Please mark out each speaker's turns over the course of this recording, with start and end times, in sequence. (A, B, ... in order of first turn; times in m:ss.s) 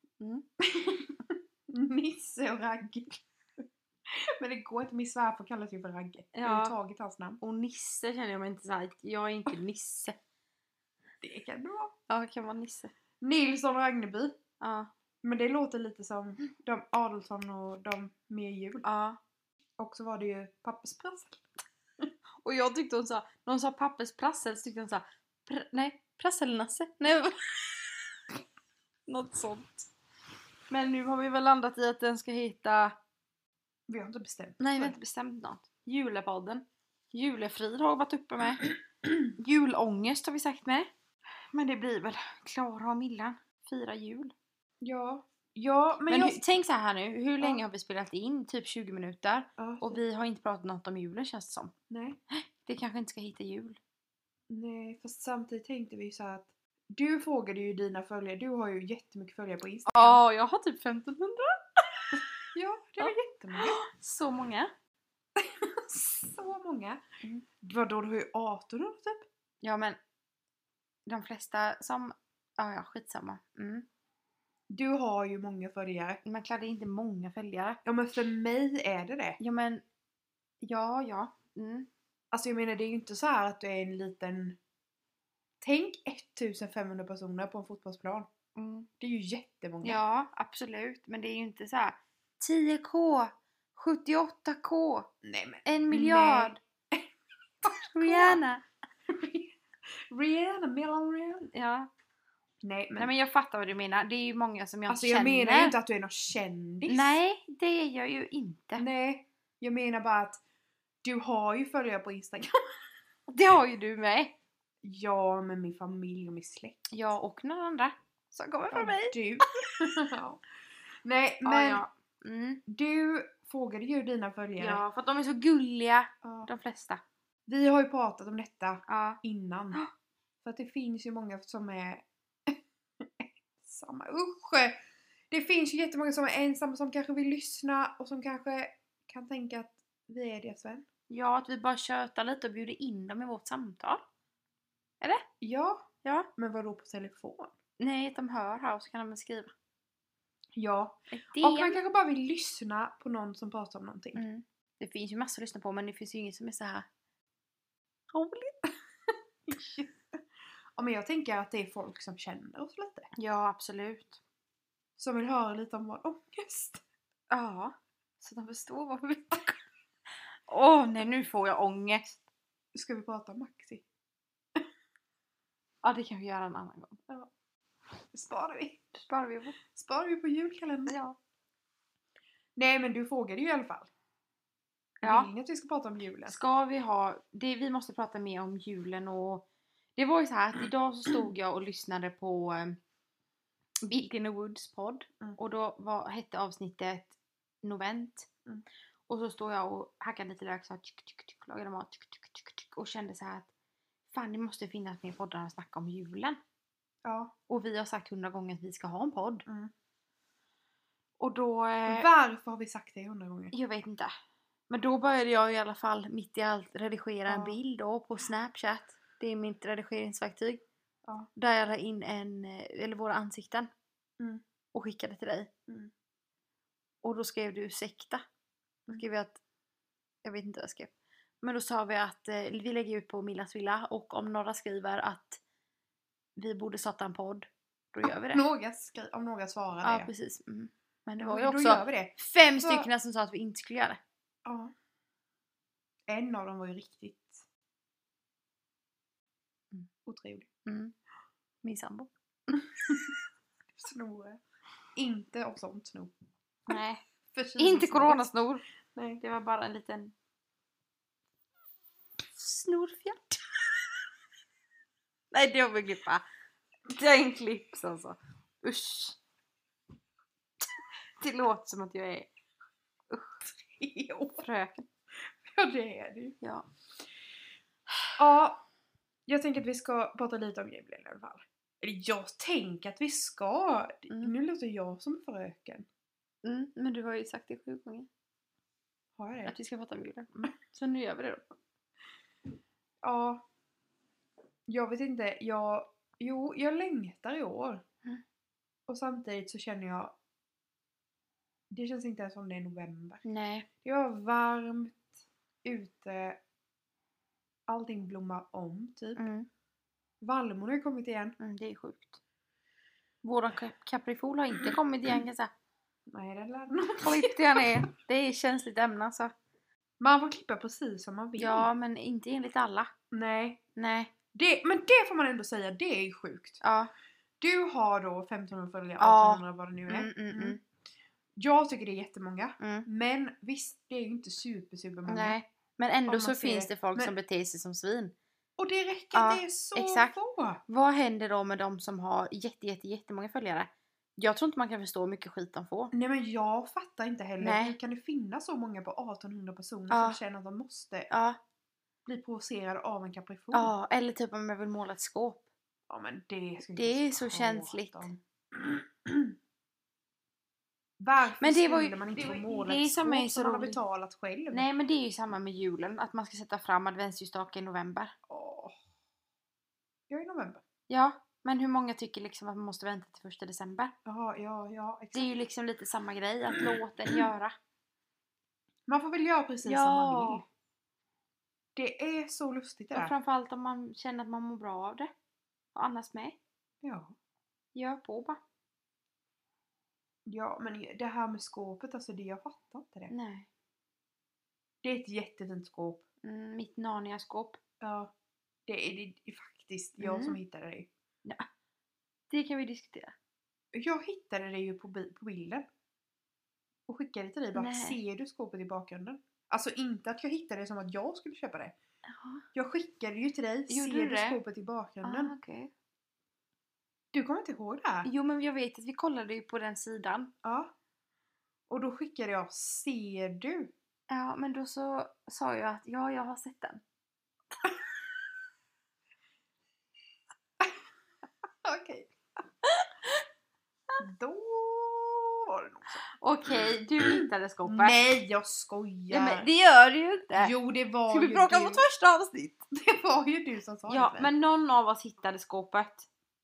0:00.2-0:00.4 A
0:00.6-0:07.4 B
0:06.3-0:06.8 A
0:07.4-0:10.2 A
0:11.2-0:11.9 B
0:12.1-0:12.9 A
0:13.2-0:14.4 B
0:14.6-0:14.9 A
0:15.2-0:18.8 B
0:18.8-0:19.2 A
0:19.8-0:21.4 B
0:22.4-0:27.8 A
0:29.1-0:29.9 A
0:30.7-0:33.0 A
0:33.9-0:35.0 B
0:34.6-0:38.7 A
0:39.4-0:40.9 A
0:41.5-0:44.3 A
0:44.8-0:46.4 B
0:46.1-0:51.7 A
0:49.6-0:50.0 B
0:51.9-0:52.2 B
0:52.3-0:53.8 A
0:54.5-1:00.2 B
0:59.9-1:02.2 A
1:02.1-1:03.8 B
1:03.0-1:04.7 A
1:05.4-1:07.0 B
1:07.6-1:09.3 B
1:09.6-1:10.0 A
1:11.1-1:13.9 A
1:14.7-1:16.2 B
1:16.2-1:17.8 A
1:17.8-1:19.4 B
1:19.4-1:19.8 A
1:20.6-1:21.9 A
1:22.3-1:24.6 B
1:25.6-1:28.3 B
1:28.6-1:28.9 A
1:29.0-1:30.0 B
1:29.8-1:35.1 A
1:35.2-1:37.1 B
1:35.6-1:36.6 A
1:37.6-1:38.4 B
1:37.7-1:38.6 A
1:39.1-1:39.5 B
1:40.1-1:41.5 B
1:41.5-1:41.9 A
1:42.6-1:43.1 B
1:43.0-1:45.8 A
1:44.9-1:47.2 B
1:46.9-1:48.8 A
1:48.8-1:50.4 B
1:51.0-1:52.6 B
1:53.3-1:54.3 A
1:54.8-1:56.8 B
1:56.9-1:59.2 A
1:58.7-2:00.4 B
2:01.0-2:01.8 B
2:01.4-2:02.6 A
2:02.7-2:04.8 B
2:04.6-2:07.0 A
2:06.2-2:06.5 B
2:07.5-2:09.8 B
2:08.9-2:09.2 A
2:10.4-2:14.8 B
2:15.3-2:20.8 B
2:21.1-2:24.0 A
2:25.4-2:25.9 B
2:26.0-2:26.3 A
2:26.4-2:27.5 B
2:27.8-2:29.5 A
2:30.6-2:34.2 B
2:31.1-2:31.8 A
2:34.2-2:36.9 A
2:38.1-2:38.6 A
2:39.5-2:40.2 B
2:40.8-2:43.1 B
2:43.2-2:44.2 A
2:45.0-2:46.8 B
2:47.3-2:49.6 A
2:50.5-2:52.2 A
2:52.7-2:53.8 B
2:55.8-2:57.0 A
2:58.1-2:59.0 B
2:59.1-2:59.6 A
2:59.7-3:01.0 B
3:00.9-3:01.2 A
3:02.6-3:03.9 B
3:05.0-3:06.4 B
3:05.0-3:05.3 A
3:06.3-3:09.4 A
3:10.0-3:12.8 A
3:13.8-3:18.3 A
3:19.1-3:23.5 A
3:24.1-3:26.4 A
3:27.0-3:27.3 B
3:27.5-3:29.5 A
3:29.5-3:29.7 B
3:31.2-3:32.1 A
3:31.9-3:33.5 B
3:33.5-3:34.1 A
3:34.7-3:40.6 A
3:37.3-3:37.6 B
3:41.4-3:43.7 A
3:44.7-3:45.5 A
3:47.0-3:48.2 A
3:48.9-3:49.4 A
3:50.2-3:50.9 A
3:51.4-3:55.4 A
3:56.4-3:58.4 A
3:58.0-4:00.1 B
3:59.8-4:04.0 A
4:01.2-4:02.9 B
4:04.4-4:04.7 B
4:06.1-4:07.4 B
4:10.0-4:10.5 B
4:10.6-4:10.9 A
4:11.6-4:12.6 A
4:12.9-4:13.1 B
4:13.8-4:14.4 B
4:15.0-4:16.1 B
4:16.7-4:17.0 A
4:17.3-4:18.3 B
4:17.6-4:18.6 A
4:18.9-4:19.2 B
4:19.2-4:20.1 A
4:22.4-4:23.3 A
4:25.3-4:26.2 A
4:26.9-4:29.2 A
4:31.2-4:32.3 A
4:33.1-4:33.4 A
4:33.6-4:34.4 B
4:34.4-4:34.9 A
4:35.4-4:36.4 B
4:36.4-4:36.7 A
4:38.2-4:38.6 B
4:39.3-4:45.9 B
4:44.1-4:44.3 A
4:46.4-4:48.1 A
4:49.2-4:49.6 B
4:49.4-4:51.4 A
4:53.0-4:53.4 B
4:54.7-4:57.8 B
4:58.9-5:00.2 B
5:01.7-5:03.2 B
5:03.2-5:03.7 A
5:03.8-5:05.1 B
5:05.6-5:06.4 B
5:07.7-5:09.2 B
5:09.2-5:09.5 A
5:10.2-5:11.4 B
5:11.4-5:12.2 A
5:13.2-5:15.5 A
5:16.1-5:17.7 B
5:17.0-5:19.3 A
5:20.0-5:21.7 B
5:21.4-5:22.9 A
5:23.1-5:23.6 B
5:23.8-5:24.1 A
5:24.3-5:26.6 B
5:26.6-5:26.9 A
5:27.4-5:30.6 B
5:29.0-5:30.6 A
5:31.4-5:35.4 B
5:32.6-5:32.9 A
5:35.1-5:38.2 A
5:36.1-5:37.1 B
5:38.6-5:40.6 B
5:39.1-5:40.2 A
5:40.7-5:45.9 A
5:45.9-5:51.1 B
5:47.4-5:47.8 A
5:49.9-5:50.2 A
5:51.1-5:51.4 A
5:52.1-5:53.7 B
5:53.5-5:55.4 A
5:55.9-5:59.4 B
5:56.8-5:58.1 A
6:01.0-6:04.7 B
6:01.4-6:03.8 A
6:04.5-6:08.1 A
6:08.3-6:08.8 B
6:10.1-6:10.6 B
6:10.9-6:13.9 A
6:14.1-6:15.3 B
6:15.1-6:17.6 A
6:18.9-6:20.5 B
6:19.6-6:20.4 A
6:21.8-6:23.1 B
6:22.9-6:25.1 A
6:25.8-6:26.4 A
6:26.8-6:27.2 B
6:27.8-6:28.4 A
6:30.3-6:33.1 B
6:33.1-6:33.5 A
6:34.8-6:36.0 B
6:36.2-6:37.6 A
6:37.8-6:38.1 B
6:38.7-6:40.9 B
6:40.0-6:40.4 A
6:42.3-6:43.1 A
6:43.7-6:45.7 B
6:46.9-6:51.8 B
6:47.6-6:48.0 A
6:52.1-6:52.4 A
6:52.5-6:55.3 B
6:53.7-6:54.4 A
6:55.0-6:55.7 A
6:57.1-6:58.1 B
6:58.0-7:00.3 A
7:00.4-7:00.7 B
7:01.7-7:03.7 B
7:04.1-7:06.8 A
7:11.6-7:12.1 B
7:12.6-7:13.2 A
7:14.0-7:16.0 B
7:16.2-7:18.0 A
7:17.0-7:19.5 B
7:19.1-7:20.5 A
7:20.3-7:21.8 B
7:21.1-7:22.6 A
7:22.7-7:24.3 B
7:23.9-7:26.1 A